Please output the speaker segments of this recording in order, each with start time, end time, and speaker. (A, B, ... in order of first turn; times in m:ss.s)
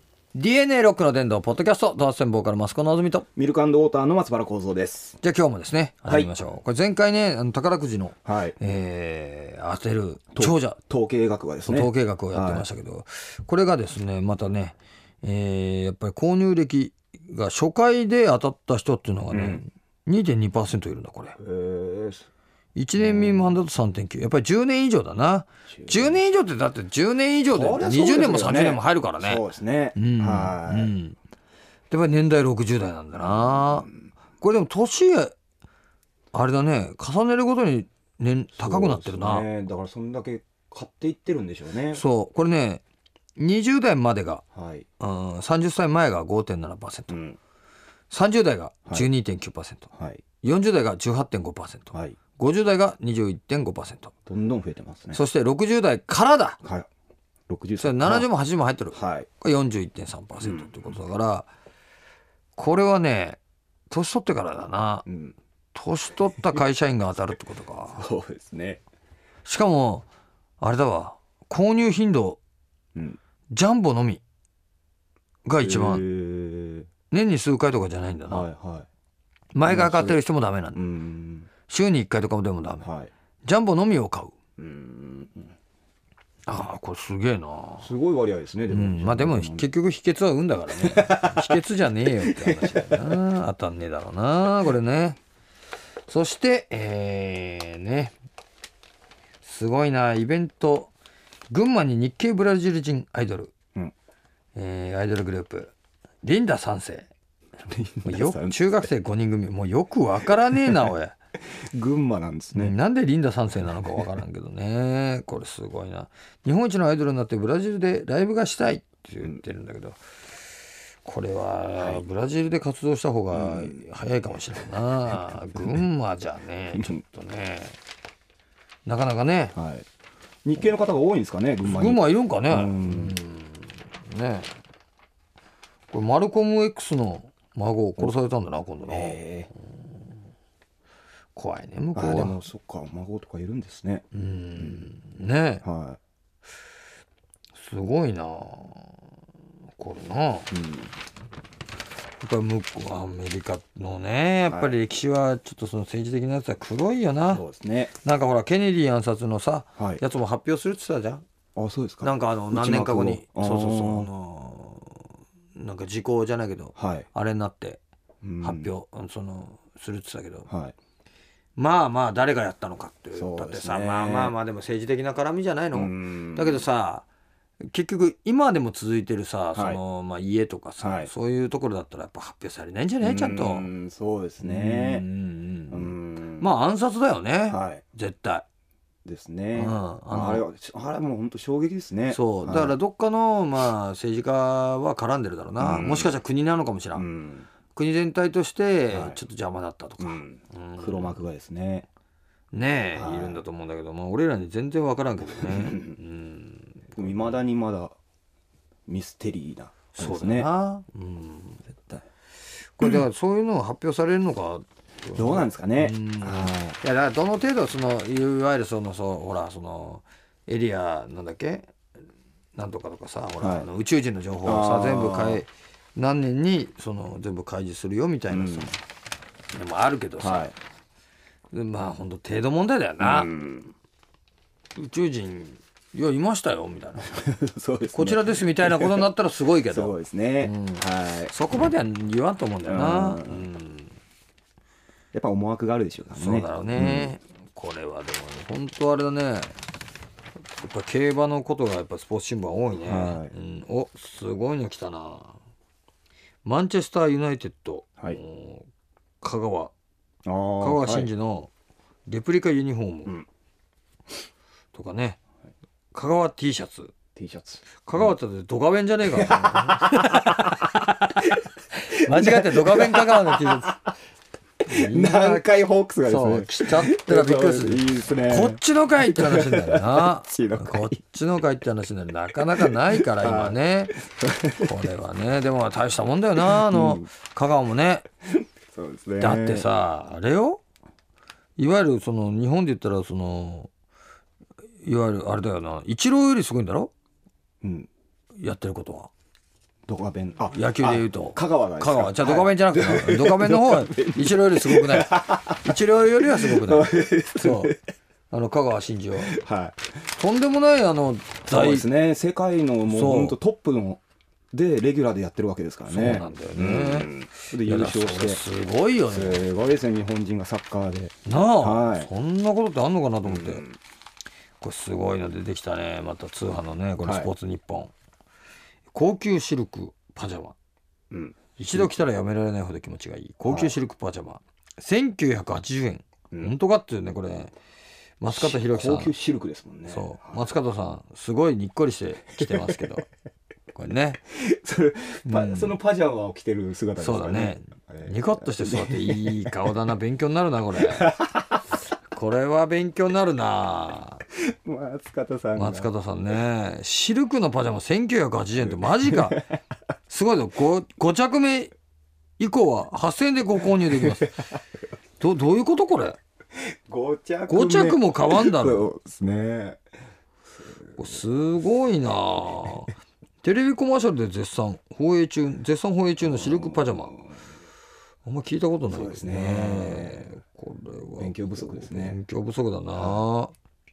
0:00.3-0:03.3 A
0:03.4-0:05.2 B
0:05.2-0:10.8 A
0:06.1-0:06.4 B
0:08.2-0:08.6 B
0:10.3-0:12.7 B
0:11.6-0:21.4 A
0:19.3-0:19.6 B
0:21.4-0:22.2 B
0:22.7-0:29.4 A
0:22.9-0:23.6 B
0:25.7-0:26.2 B
0:27.5-0:30.9 B
0:30.0-0:31.2 A
0:31.9-0:33.9 A
0:33.2-0:33.9 B
0:34.4-0:35.3 A
0:36.3-0:39.5 A
0:38.5-0:42.0 B
0:41.9-0:42.8 A
0:43.4-0:44.4 A
0:44.6-0:44.9 B
0:45.0-0:47.2 A
0:47.1-0:47.4 B
0:48.1-0:49.9 A
0:49.9-0:50.2 B
0:50.4-0:54.1 A
0:54.3-0:55.2 B
0:55.1-0:56.6 A
0:57.5-0:58.3 B
0:57.8-1:01.5 A
0:58.9-0:59.3 B
1:00.4-1:01.0 B
1:02.6-1:03.4 A
1:03.9-1:05.0 A
1:05.0-1:05.4 B
1:05.7-1:08.1 A
1:07.9-1:08.8 B
1:09.4-1:10.0 A
1:10.6-1:12.4 A
1:13.5-1:14.2 A
1:15.4-1:16.0 A
1:15.6-1:16.9 B
1:17.1-1:18.5 A
1:18.3-1:18.8 B
1:19.6-1:20.8 A
1:19.7-1:20.2 B
1:20.7-1:21.5 B
1:21.7-1:22.9 A
1:22.8-1:23.1 B
1:23.4-1:24.3 A
1:24.6-1:25.5 B
1:26.4-1:27.9 A
1:27.8-1:29.7 B
1:28.7-1:35.2 A
1:30.7-1:31.6 B
1:32.2-1:33.2 B
1:36.1-1:38.1 A
1:39.4-1:40.9 A
1:41.5-1:43.5 A
1:44.6-1:47.1 A
1:47.7-1:48.7 B
1:48.0-1:51.1 A
1:50.5-1:50.9 B
1:51.7-1:52.8 B
1:52.6-2:00.0 A
2:01.0-2:07.8 A
2:01.8-2:02.0 B
2:03.3-2:04.3 B
2:05.1-2:05.8 B
2:06.7-2:07.0 B
2:08.8-2:09.5 A
2:09.5-2:09.8 B
2:10.4-2:13.2 B
2:11.6-2:14.5 A
2:15.9-2:19.2 A
2:18.9-2:19.5 B
2:21.3-2:22.4 A
2:22.0-2:24.0 B
2:24.1-2:25.6 A
2:24.6-2:24.9 B
2:25.6-2:26.0 B
2:27.5-2:29.0 A
2:29.8-2:30.5 A
2:30.5-2:30.9 B
2:32.2-2:37.4 A
2:34.5-2:34.8 B
2:37.3-2:37.9 B
2:38.0-2:41.2 A
2:39.8-2:40.0 B
2:41.5-2:44.1 B
2:42.0-2:47.8 A
2:46.8-2:47.1 B
2:48.2-2:48.7 B
2:48.4-2:50.5 A
2:50.5-2:50.8 B
2:51.6-2:57.1 A
2:53.1-2:54.3 B
2:55.7-2:56.7 B
2:57.7-3:03.7 A
2:59.5-2:59.8 B
3:00.8-3:01.1 B
3:03.0-3:05.1 B
3:04.4-3:08.4 A
3:05.7-3:06.5 B
3:07.5-3:07.8 B
3:09.0-3:12.8 B
3:09.5-3:10.4 A
3:12.1-3:17.1 A
3:15.6-3:16.2 B
3:16.9-3:17.5 B
3:17.7-3:21.2 A
3:18.9-3:19.2 B
3:20.0-3:21.8 B
3:22.5-3:27.4 A
3:22.9-3:23.4 B
3:25.2-3:26.0 B
3:26.9-3:27.9 B
3:28.9-3:30.5 B
3:29.9-3:31.6 A
3:32.8-3:41.7 A
3:35.1-3:36.8 B
3:42.5-3:48.8 A
3:43.4-3:43.7 B
3:44.4-3:45.4 B
3:48.3-3:48.7 B
3:49.5-3:50.5 A
3:50.2-3:50.5 B
3:51.5-3:53.3 A
3:53.0-3:53.7 B
3:54.8-3:57.2 A
3:57.0-3:59.1 B
3:57.9-4:03.9 A
3:59.6-4:01.3 B
4:02.6-4:03.5 B
4:05.1-4:07.2 B
4:06.1-4:09.5 A
4:10.6-4:15.4 A
4:12.7-4:13.3 B
4:16.4-4:18.7 A
4:19.2-4:19.7 A
4:20.2-4:21.1 B
4:20.6-4:21.5 A
4:22.1-4:23.2 A
4:24.7-4:25.2 A
4:25.9-4:26.9 A
4:27.1-4:28.1 B
4:27.8-4:31.3 A
4:29.0-4:31.4 B
4:31.9-4:33.8 A
4:31.9-4:33.8 B
4:34.7-4:35.4 A
4:34.7-4:41.0 B
4:36.0-4:44.0 A
4:42.5-4:44.7 B
4:44.5-4:48.0 A
4:46.4-4:47.1 B
4:48.4-4:49.7 B
4:49.2-4:50.6 A
4:51.6-4:53.7 A
4:54.8-4:56.9 A
4:57.6-4:57.9 B
4:58.4-4:59.1 A
4:59.9-5:07.8 B
5:00.5-5:07.8 A
5:08.3-5:09.3 A
5:09.2-5:09.8 B
5:10.1-5:11.9 A
5:11.5-5:14.0 B
5:12.9-5:13.4 A
5:14.5-5:18.4 B
5:15.9-5:19.4 A
5:19.1-5:22.1 B
5:21.2-5:23.6 A
5:23.2-5:23.8 B
5:24.6-5:27.9 A
5:27.0-5:27.3 B
5:28.9-5:30.6 A
5:31.1-5:32.0 B
5:31.6-5:37.5 A
5:33.4-5:33.8 B
5:38.2-5:39.1 A
5:38.3-5:40.5 B
5:39.9-5:43.1 A
5:42.4-5:42.9 B
5:43.7-5:44.2 A
5:44.3-5:49.7 B
5:45.3-5:45.8 A
5:47.0-5:51.2 A
5:50.8-5:51.6 B
5:52.1-5:54.2 A
5:54.5-5:55.9 B
5:55.6-5:59.4 A
5:58.6-5:59.6 B
6:00.1-6:01.7 A
6:02.4-6:04.3 A
6:03.8-6:04.3 B
6:05.2-6:06.2 A
6:06.9-6:09.8 B
6:07.5-6:08.9 A
6:11.0-6:12.9 A
6:13.4-6:17.2 A
6:16.2-6:17.2 B
6:18.2-6:23.5 A
6:18.9-6:20.4 B
6:21.2-6:22.2 B
6:23.0-6:23.2 B